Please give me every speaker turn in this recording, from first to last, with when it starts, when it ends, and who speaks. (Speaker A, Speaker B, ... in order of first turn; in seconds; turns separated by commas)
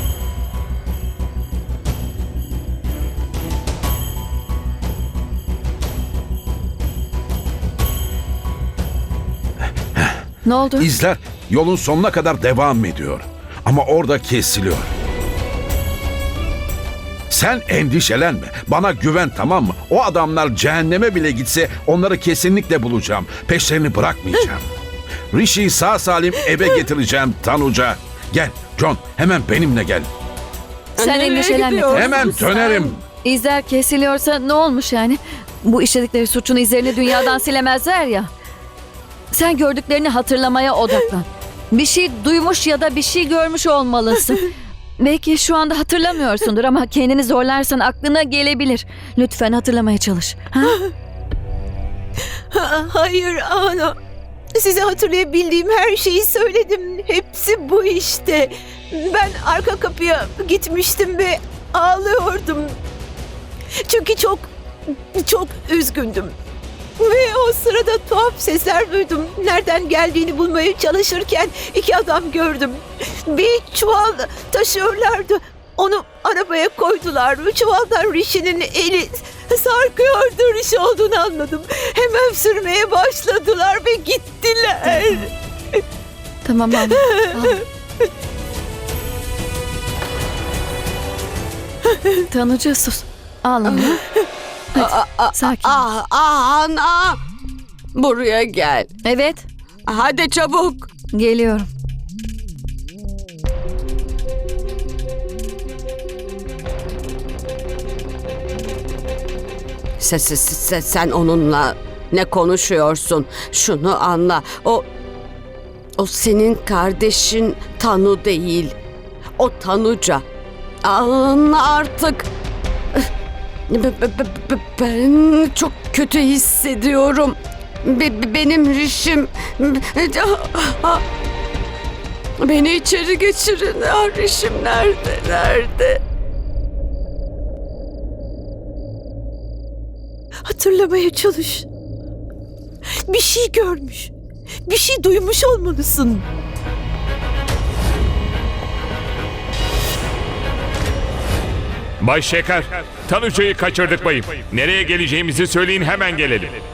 Speaker A: 10.4-10.9, Speaker B: 10.8-14.9, Speaker B: 17.3-24.6, Speaker B: 25.3-30.1, Speaker A: 31.0-32.3, Speaker C: 31.0-32.9, Speaker B: 31.9-33.0, Speaker A: 33.0-38.3, Speaker A: 39.3-44.5, Speaker A: 45.0-50.8, Speaker D: 52.5-54.0, Speaker D: 54.5-62.7, Speaker D: 63.9-64.5, Speaker D: 65.1-66.3, Speaker D: 67.0-85.3, Speaker A: 86.4-87.6, Speaker D: 86.8-87.5, Speaker A: 92.3-94.0, Speaker C: 93.7-94.0, Speaker C: 94.8-97.2, Speaker A: 94.8-95.8, Speaker C: 97.9-98.9, Speaker A: 99.0-99.4, Speaker C: 99.9-100.9, Speaker A: 101.1-101.7, Speaker C: 110.0-114.8, Speaker C: 116.0-118.8, Speaker C: 119.4-120.2, Speaker C: 120.8-122.3, Speaker C: 123.7-131.0, Speaker C: 132.4-136.0, Speaker D: 140.4-141.7, Speaker D: 143.1-144.1, Speaker D: 144.7-146.2, Speaker E: 152.1-156.5